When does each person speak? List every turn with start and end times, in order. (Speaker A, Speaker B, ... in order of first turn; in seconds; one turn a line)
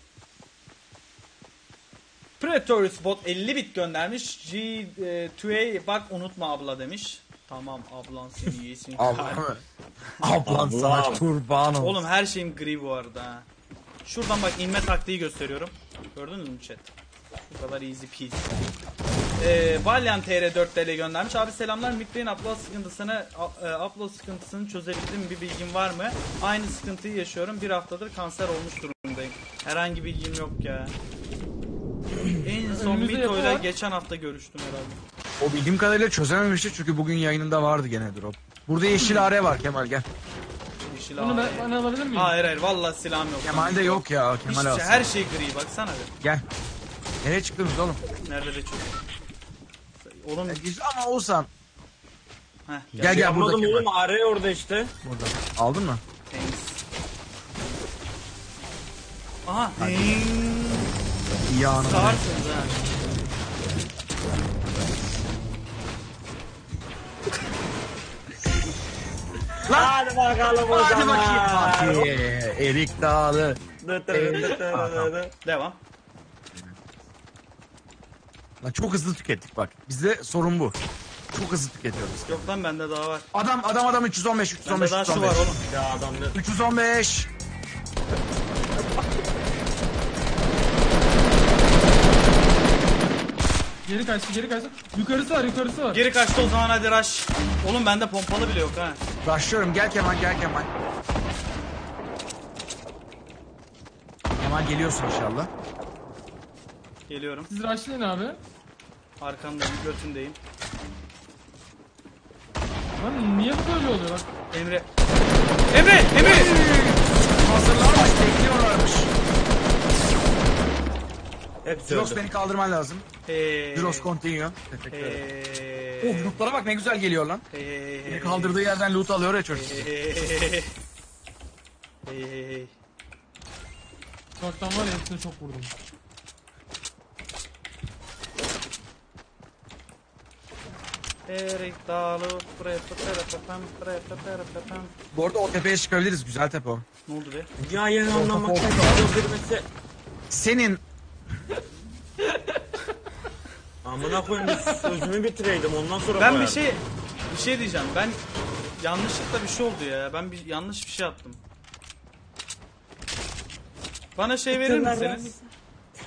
Speaker A: 2.4-9.4
Speaker B: 9.0-9.6
Speaker B: 10.2-12.0
Speaker C: 10.4-11.2
Speaker A: 11.8-13.4
Speaker A: 14.0-16.9
Speaker A: 17.5-18.5
Speaker A: 19.4-30.9
Speaker A: 32.4-35.0
Speaker D: 32.7-33.7
Speaker B: 35.4-40.0
Speaker A: 39.0-39.3
Speaker A: 40.9-46.1
Speaker D: 41.2-42.4
Speaker B: 43.4-45.0
Speaker B: 47.2-48.0
Speaker A: 48.2-48.9
Speaker A: 50.0-50.6
Speaker B: 50.5-51.5
Speaker A: 52.7-53.2
Speaker C: 52.9-54.9
Speaker B: 53.0-53.9
Speaker B: 55.0-56.0
Speaker A: 56.3-56.8
Speaker A: 59.5-60.9
Speaker B: 59.8-60.2
Speaker B: 61.5-62.2
Speaker A: 61.7-62.8
Speaker B: 69.7-69.9
Speaker C: 69.7-72.1
Speaker B: 70.7-73.6
Speaker C: 73.8-75.3
Speaker B: 74.1-75.1
Speaker A: 75.4-75.8
Speaker B: 78.6-80.8
Speaker B: 81.3-82.5
Speaker A: 82.3-83.3
Speaker B: 83.3-85.5
Speaker A: 84.6-85.6
Speaker C: 85.7-86.4
Speaker B: 86.3-87.3
Speaker D: 93.8-96.0
Speaker A: 95.9-99.0
Speaker B: 99.2-100.7
Speaker B: 104.4-105.5
Speaker A: 107.1-107.5
Speaker D: 107.5-108.4
Speaker A: 109.2-110.4
Speaker D: 113.0-114.3
Speaker A: 114.5-114.8
Speaker A: 115.7-116.5
Speaker B: 116.1-119.1
Speaker C: 121.6-122.2
Speaker B: 121.9-123.0
Speaker A: 123.3-124.1
Speaker B: 123.7-125.2
Speaker A: 124.9-126.4
Speaker B: 126.0-127.4
Speaker A: 127.5-128.6
Speaker B: 128.1-129.9
Speaker A: 129.5-130.7
Speaker A: 132.1-132.7
Speaker D: 134.4-135.7
Speaker A: 141.3-144.9
Speaker B: 145.1-146.8
Speaker A: 147.1-147.5
Speaker C: 147.6-149.7
Speaker B: 148.1-149.0
Speaker B: 150.3-150.8
Speaker C: 153.8-156.7
Speaker D: 154.5-154.9
Speaker A: 156.2-158.2
Speaker A: 158.8-161.4
Speaker A: 164.2-165.3
Speaker C: 164.5-165.4